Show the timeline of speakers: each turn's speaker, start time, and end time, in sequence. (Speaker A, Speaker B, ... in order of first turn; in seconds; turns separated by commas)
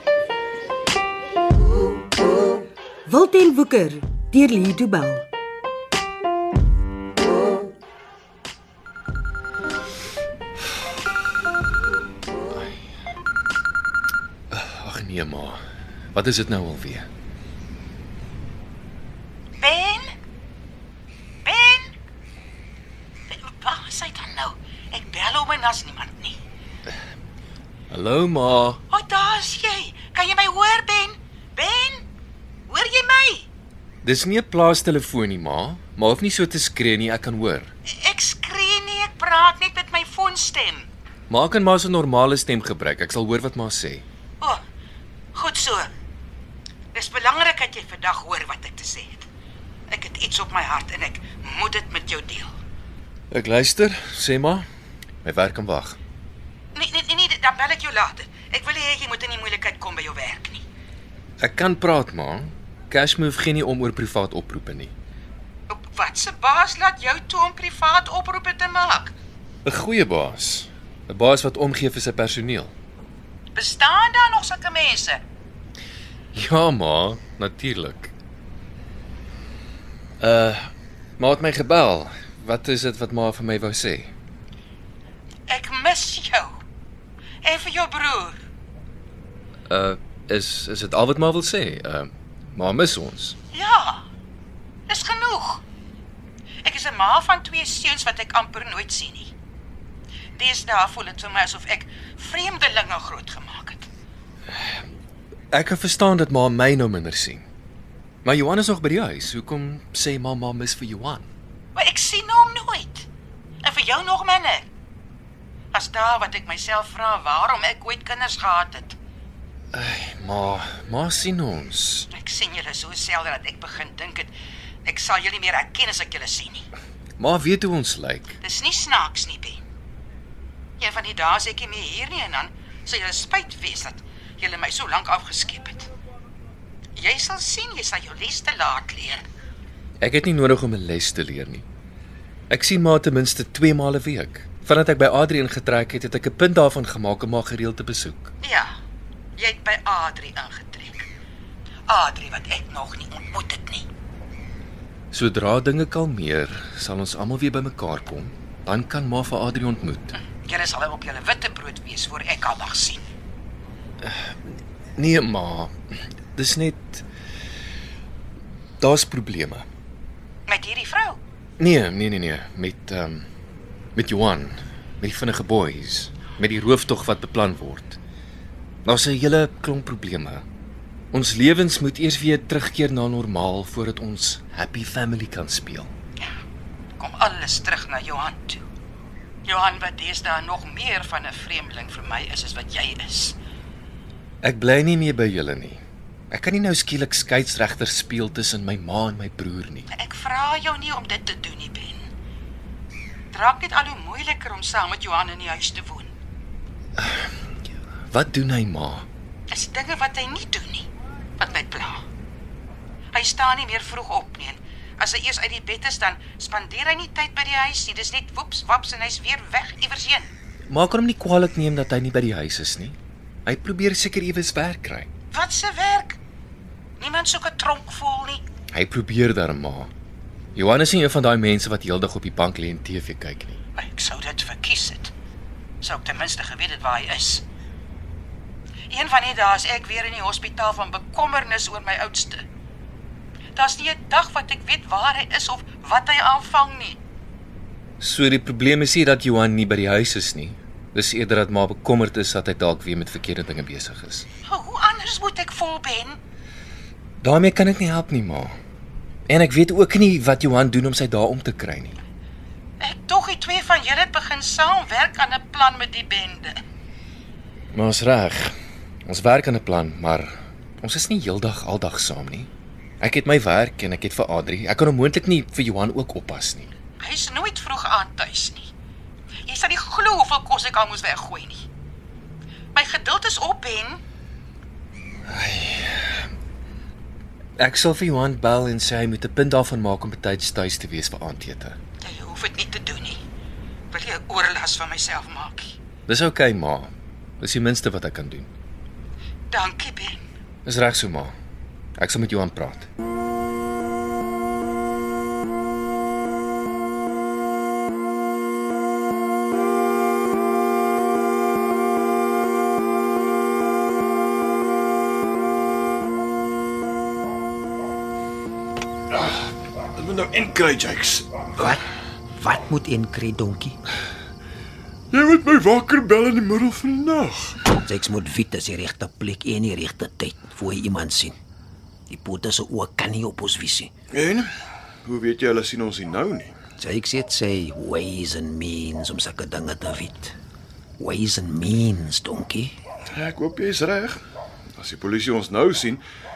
Speaker A: 3.1-5.2, Speaker B: 14.5-15.6, Speaker B: 16.1-17.1, Speaker C: 19.6-20.1, Speaker C: 21.4-21.9, Speaker C: 23.3-26.4, Speaker B: 27.9-28.8, Speaker C: 28.9-32.1, Speaker C: 32.7-33.5, Speaker B: 34.0-37.7, Speaker C: 37.9-40.9, Speaker B: 41.3-44.0, Speaker C: 45.3-45.9, Speaker C: 46.9-49.3, Speaker C: 49.9-52.5, Speaker B: 53.3-54.7, Speaker B: 55.2-56.0, Speaker C: 56.7-60.6, Speaker B: 61.4-64.9, Speaker C: 65.7-69.1, Speaker B: 69.6-72.7, Speaker C: 73.5-75.2, Speaker B: 76.3-78.1, Speaker B: 80.2-84.1, Speaker C: 85.5-86.5, Speaker C: 87.4-88.3, Speaker B: 89.7-93.3, Speaker C: 93.5-94.0, Speaker C: 94.9-95.6, Speaker C: 96.6-99.3, Speaker C: 100.3-103.9, Speaker B: 105.5-107.4, Speaker B: 108.2-111.3, Speaker C: 111.7-113.1, Speaker C: 113.6-114.7, Speaker C: 115.7-119.0, Speaker B: 119.7-122.1, Speaker C: 122.1-124.3, Speaker C: 124.8-126.6, Speaker B: 127.2-128.4, Speaker C: 128.4-129.6, Speaker C: 130.8-135.9, Speaker C: 136.9-139.2, Speaker B: 140.0-141.6, Speaker B: 142.5-148.3, Speaker C: 148.4-148.7, Speaker C: 149.3-151.1, Speaker C: 151.9-153.9, Speaker B: 155.1-160.1, Speaker C: 160.1-163.0, Speaker B: 164.0-165.7, Speaker B: 166.3-167.0, Speaker B: 168.8-169.7, Speaker C: 170.5-171.2, Speaker B: 171.6-173.2, Speaker B: 173.9-178.0, Speaker B: 178.8-180.4, Speaker B: 181.1-185.9, Speaker C: 187.0-188.6, Speaker C: 189.4-193.4, Speaker B: 194.4-199.9, Speaker C: 199.9-202.1, Speaker C: 203.3-206.1, Speaker B: 207.0-207.2, Speaker B: 208.1-209.1, Speaker C: 209.5-212.0, Speaker C: 213.1-220.3, Speaker B: 220.7-225.1, Speaker C: 225.3-226.2, Speaker C: 227.0-228.4, Speaker B: 228.7-229.9, Speaker B: 230.5-233.6, Speaker C: 233.8-235.1, Speaker C: 235.8-237.4, Speaker C: 238.9-242.4, Speaker C: 243.5-247.0, Speaker B: 248.0-254.3, Speaker C: 254.4-256.2, Speaker B: 257.2-258.5, Speaker B: 259.3-262.0, Speaker C: 262.8-266.6, Speaker B: 267.7-268.5, Speaker B: 269.1-276.7, Speaker C: 277.0-278.7, Speaker C: 279.4-281.6, Speaker C: 282.7-284.0, Speaker B: 285.3-286.0, Speaker B: 287.6-291.8, Speaker C: 292.0-293.2, Speaker C: 293.9-295.7, Speaker B: 296.1-298.5, Speaker C: 299.5-300.2, Speaker B: 300.6-301.3, Speaker B: 302.0-302.9, Speaker D: 319.1-321.7, Speaker E: 321.6-321.8, Speaker E: 322.4-323.8, Speaker D: 325.1-327.7, Speaker E: 327.8-331.3, Speaker E: 332.1-333.9, Speaker D: 334.1-334.5, Speaker D: 335.0-336.6, Speaker E: 336.8-340.4, Speaker E: 341.0-342.7, Speaker D: 343.1-344.2, Speaker D: 344.8-346.0